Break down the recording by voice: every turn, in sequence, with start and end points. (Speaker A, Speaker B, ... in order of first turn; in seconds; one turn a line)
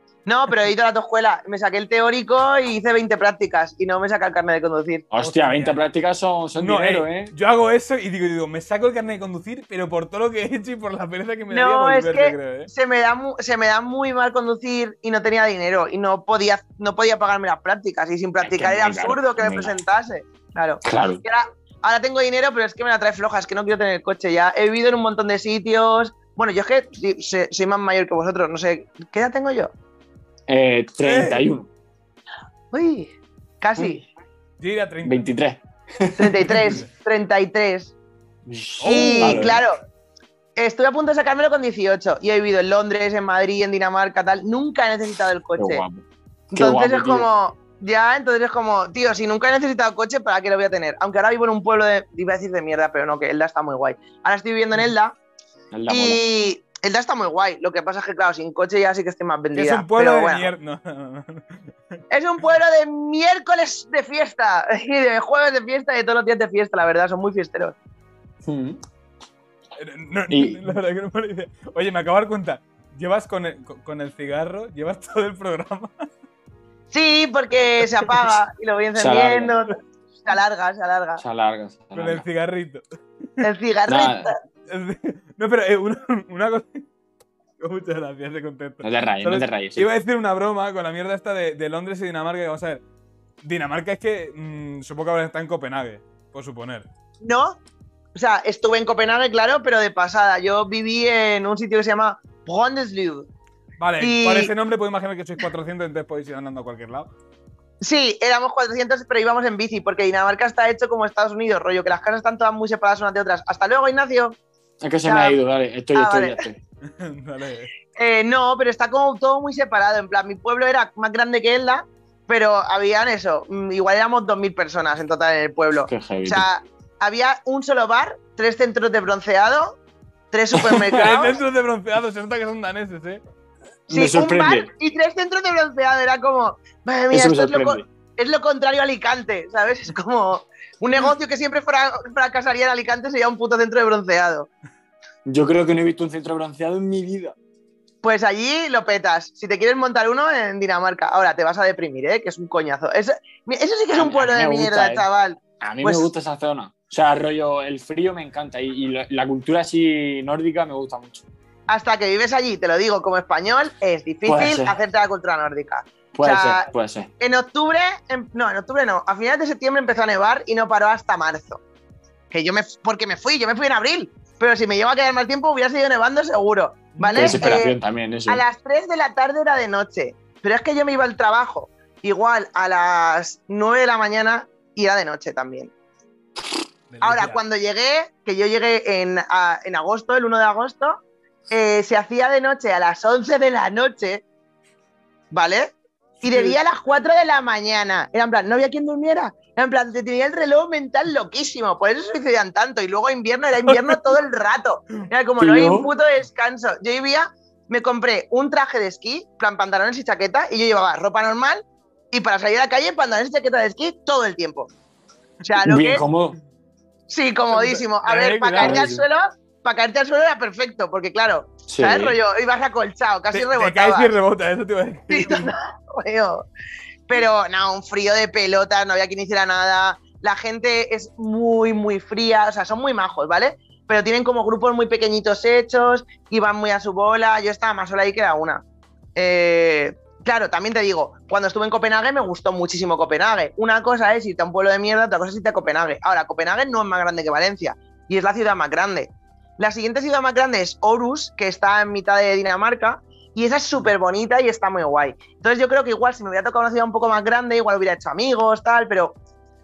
Speaker A: 0.2-5.0
Speaker B: 5.1-7.3
Speaker C: 5.2-5.8
Speaker C: 6.5-12.7
Speaker A: 11.5-29.7
Speaker B: 18.4-19.8
Speaker B: 20.8-21.2
Speaker B: 30.5-31.7
Speaker C: 31.0-31.4
Speaker A: 32.7-34.0
Speaker C: 34.6-35.3
Speaker B: 35.0-36.8
Speaker A: 36.2-37.9
Speaker C: 36.5-36.8
Speaker B: 38.4-39.6
Speaker C: 38.8-39.6
Speaker A: 38.8-39.8
Speaker A: 40.6-45.8
Speaker B: 45.6-47.3
Speaker A: 46.5-55.1
Speaker B: 55.7-56.2
Speaker A: 55.9-60.5
Speaker C: 59.5-61.6
Speaker A: 62.1-67.7
Speaker B: 68.4-68.8
Speaker C: 69.8-76.0
Speaker B: 70.3-70.6
Speaker A: 76.9-81.2
Speaker B: 79.0-79.6
Speaker B: 81.2-82.2
Speaker C: 81.9-82.8
Speaker A: 83.4-84.3
Speaker B: 83.9-84.3
Speaker C: 84.7-86.8
Speaker C: 87.6-92.8
Speaker B: 88.8-89.9
Speaker C: 93.4-96.9
Speaker A: 97.2-97.6
Speaker A: 98.1-103.3
Speaker C: 103.8-107.1
Speaker A: 104.0-104.5
Speaker A: 107.8-114.4
Speaker B: 114.8-116.6
Speaker A: 115.0-115.4
Speaker A: 115.9-116.4
Speaker C: 116.9-117.7
Speaker A: 118.0-129.8
Speaker B: 125.9-126.5
Speaker A: 130.3-131.4
Speaker B: 130.5-131.0
Speaker C: 130.9-133.2
Speaker A: 133.9-144.5
Speaker B: 133.9-134.7
Speaker B: 137.1-137.8
Speaker B: 145.2-147.3
Speaker A: 148.0-156.1
Speaker B: 153.9-155.1
Speaker B: 155.6-161.2
Speaker A: 161.7-166.7
Speaker B: 164.2-164.8
Speaker B: 166.1-167.1
Speaker A: 167.2-171.6
Speaker A: 172.3-177.8
Speaker C: 176.9-177.6
Speaker B: 177.1-178.4
Speaker A: 178.3-185.7
Speaker C: 186.9-187.4
Speaker A: 187.0-194.2
Speaker A: 195.3-214.7
Speaker C: 196.2-196.5
Speaker C: 203.6-204.0
Speaker B: 205.4-205.9
Speaker A: 215.4-216.0
Speaker B: 215.6-216.4
Speaker A: 217.1-224.1
Speaker C: 217.5-218.8
Speaker B: 218.6-219.0
Speaker B: 221.7-222.2
Speaker C: 223.3-225.5
Speaker A: 225.1-226.4
Speaker A: 227.1-238.6
Speaker A: 239.2-259.1